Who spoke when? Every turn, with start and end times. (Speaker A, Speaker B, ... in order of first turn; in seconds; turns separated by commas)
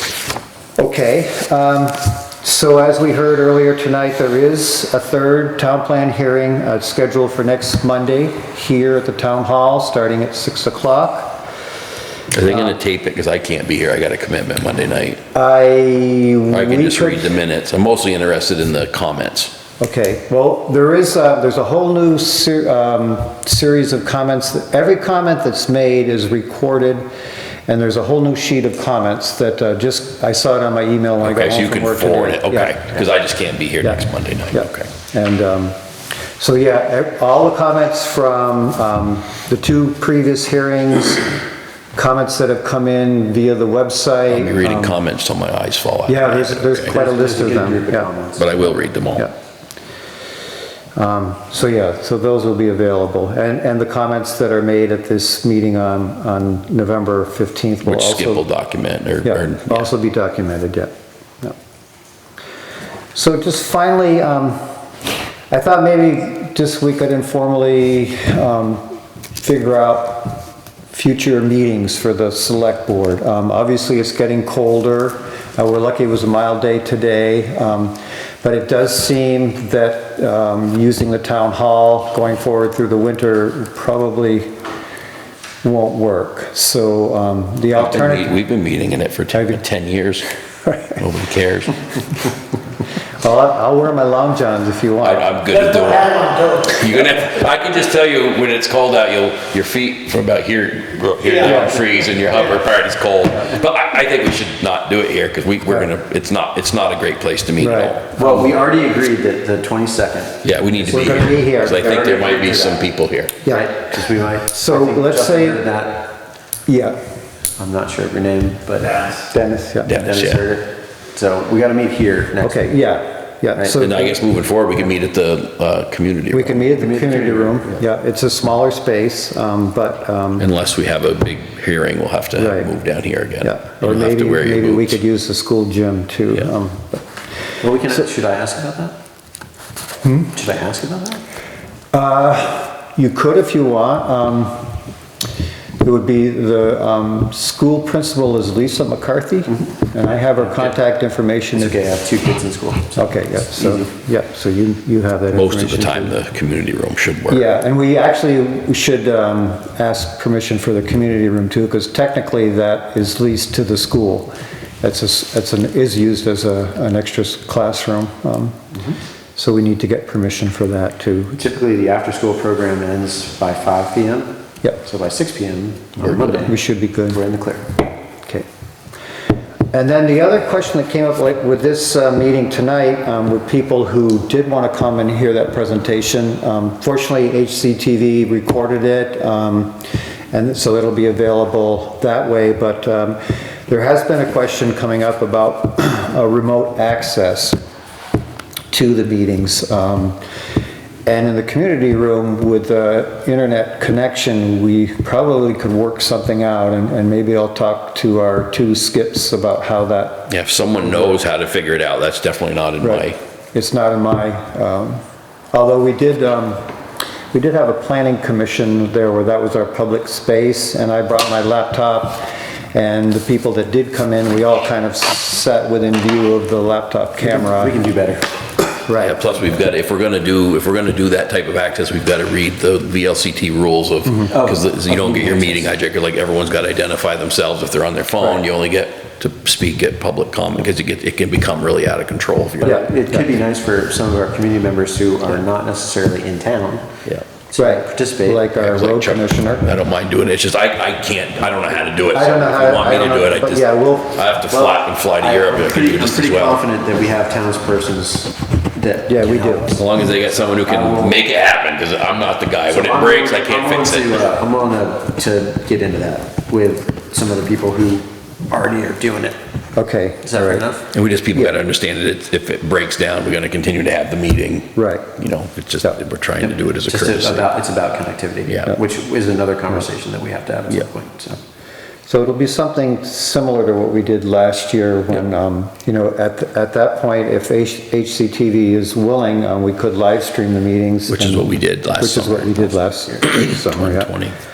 Speaker A: 0.8-11.4, Speaker B: 12.3-15.2, Speaker A: 15.3-17.3, Speaker B: 16.5-19.5, Speaker A: 19.8-27.1, Speaker A: 27.7-32.8, Speaker B: 31.2-34.9, Speaker A: 33.8-35.8, Speaker A: 36.4-41.3, Speaker A: 41.9-45.0, Speaker B: 44.3-46.9, Speaker A: 46.0-48.1, Speaker C: 46.8-48.6, Speaker B: 48.4-49.3, Speaker A: 51.0-58.4, Speaker B: 57.8-59.9, Speaker A: 59.2-61.5, Speaker A: 63.1-64.6, Speaker A: 65.5-68.8, Speaker A: 69.3-84.5, Speaker A: 85.6-88.4, Speaker B: 87.8-90.3, Speaker A: 89.3-89.6, Speaker A: 90.7-91.0, Speaker B: 91.0-91.8, Speaker A: 93.2-95.4, Speaker B: 95.0-108.5, Speaker A: 101.4-101.8, Speaker A: 107.6-108.0, Speaker C: 108.1-112.9, Speaker B: 110.4-113.4, Speaker A: 110.9-112.1, Speaker A: 113.4-113.7, Speaker C: 113.5-116.1, Speaker A: 114.5-115.6, Speaker A: 116.7-117.0, Speaker C: 117.6-119.2, Speaker A: 119.3-119.9, Speaker B: 119.8-120.5, Speaker C: 119.9-122.7, Speaker A: 122.4-124.2, Speaker B: 123.7-126.6, Speaker A: 126.3-130.5, Speaker C: 126.6-127.8, Speaker B: 130.4-135.0, Speaker A: 132.3-132.7, Speaker A: 133.4-137.0, Speaker C: 137.6-138.9, Speaker A: 140.0-140.3, Speaker C: 140.3-141.2, Speaker A: 141.9-144.7, Speaker A: 145.8-151.8, Speaker C: 151.5-153.9, Speaker A: 152.9-156.2, Speaker B: 155.3-157.5, Speaker A: 157.3-164.3, Speaker A: 164.8-168.6, Speaker A: 169.3-171.4, Speaker C: 171.4-177.7, Speaker A: 176.0-177.2, Speaker A: 179.7-189.8, Speaker A: 190.3-197.6, Speaker A: 198.7-200.2, Speaker A: 201.1-210.3, Speaker B: 210.3-213.2, Speaker A: 210.8-211.2, Speaker A: 212.8-215.0, Speaker A: 215.5-216.7, Speaker A: 217.3-227.8, Speaker C: 227.2-228.3, Speaker A: 228.8-229.2, Speaker B: 229.0-242.8, Speaker C: 234.3-235.7, Speaker C: 242.6-246.9, Speaker A: 242.6-242.9, Speaker C: 247.5-248.5, Speaker A: 247.5-249.7, Speaker B: 248.5-256.6, Speaker A: 252.1-254.3, Speaker C: 254.5-261.2, Speaker A: 259.1-259.7, Speaker B: 259.7-264.3, Speaker C: 262.7-269.4, Speaker A: 269.7-270.6, Speaker C: 270.2-270.9, Speaker B: 270.9-277.5, Speaker A: 274.7-275.1, Speaker C: 276.4-281.4, Speaker B: 278.5-278.8, Speaker A: 282.1-294.1, Speaker B: 291.1-294.4